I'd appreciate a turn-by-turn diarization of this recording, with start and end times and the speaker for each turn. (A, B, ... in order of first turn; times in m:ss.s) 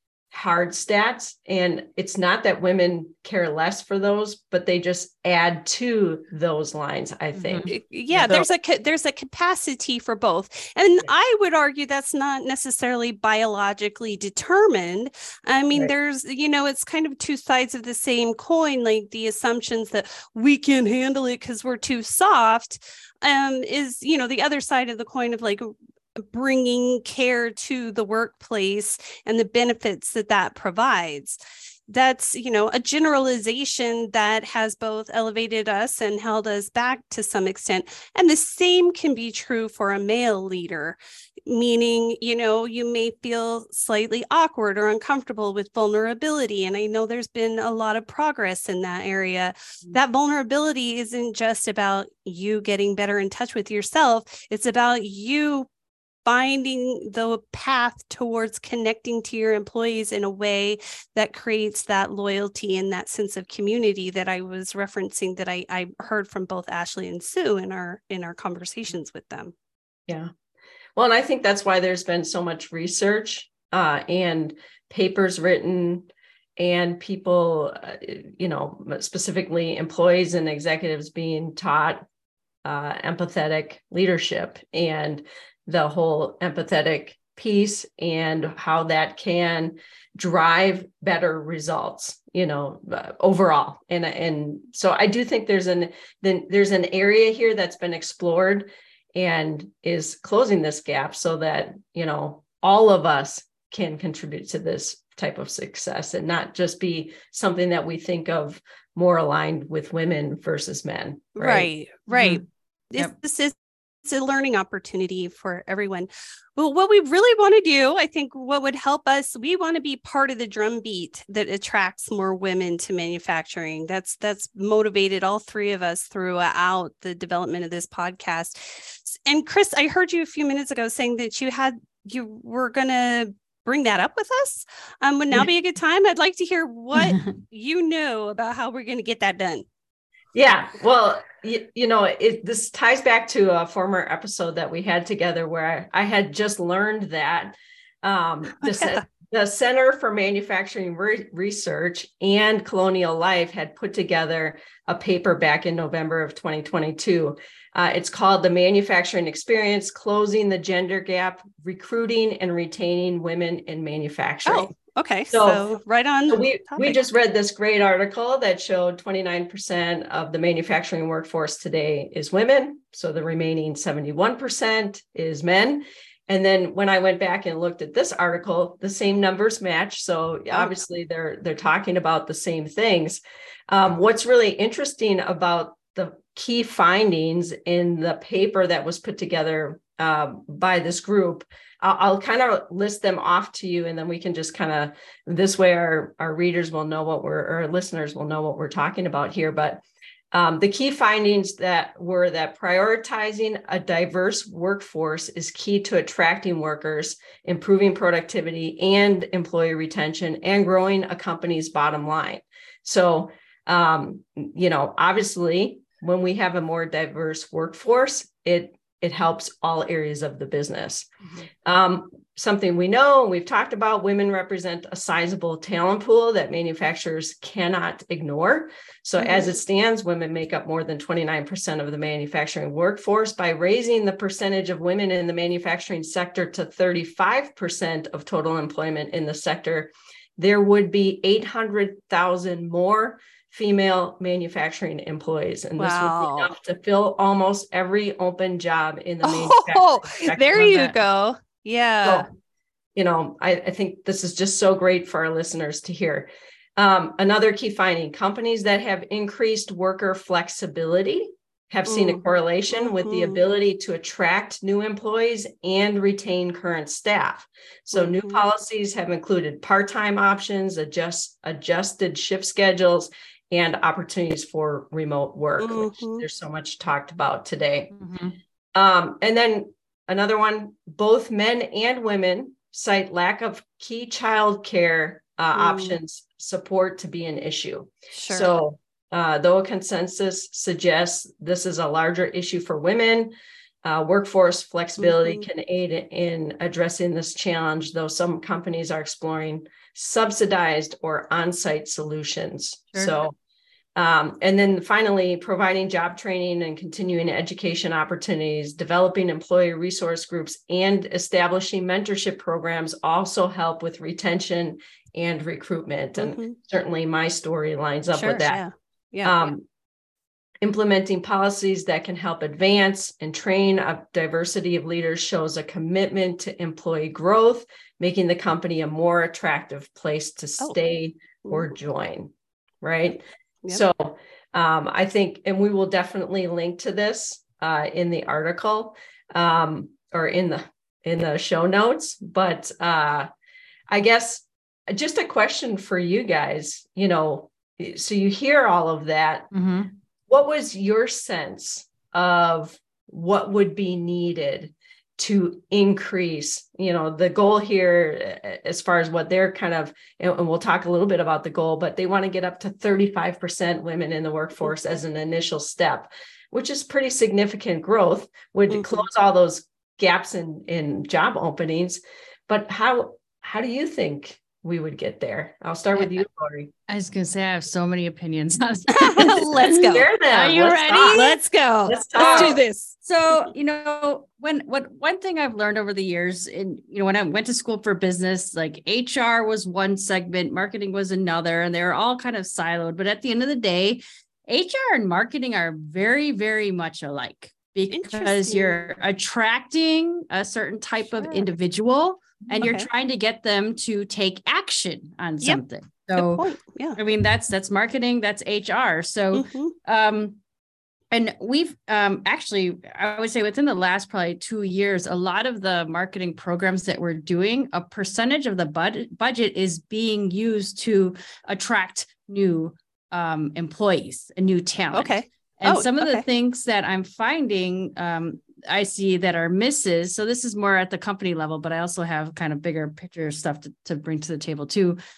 0:00.3-0:08.5 A
0:07.4-0:07.7 B
0:07.7-0:55.7 C
0:56.2-1:09.5 C
1:11.0-1:22.1 A
1:22.6-1:51.7 A
1:51.4-2:19.6 C
1:52.1-1:52.4 B
2:17.0-2:17.3 B
2:20.3-2:44.7 A
2:28.6-2:29.0 C
2:44.5-2:47.0 C
2:45.3-2:45.6 A
2:46.3-3:41.1 A
3:41.6-4:11.0 A
3:49.2-3:49.6 C
4:05.8-4:06.5 C
4:09.2-4:12.3 C
4:13.0-4:37.9 A
4:21.9-4:23.4 C
4:28.0-4:28.4 C
4:35.6-4:36.2 C
4:37.9-4:38.4 B
4:38.8-4:53.3 A
4:45.6-4:46.0 C
4:48.1-4:48.5 C
4:53.8-5:03.4 A
4:55.0-4:55.4 C
5:04.0-5:18.6 A
5:16.2-5:16.6 C
5:18.1-5:19.4 C
5:19.2-5:19.7 A
5:20.6-5:43.3 A
5:43.9-5:49.5 A
5:49.5-5:49.9 B
5:50.3-6:16.7 A
6:08.7-6:09.0 C
6:16.9-6:21.4 B
6:18.9-6:20.1 C
6:19.8-6:22.6 A
6:20.9-6:23.0 C
6:22.2-6:46.4 B
6:37.9-6:38.9 C
6:41.2-6:41.5 C
6:42.6-6:42.9 C
6:46.1-6:47.0 C
6:47.0-6:50.4 B
6:49.3-6:49.8 C
6:51.1-7:15.0 B
7:04.9-7:06.2 C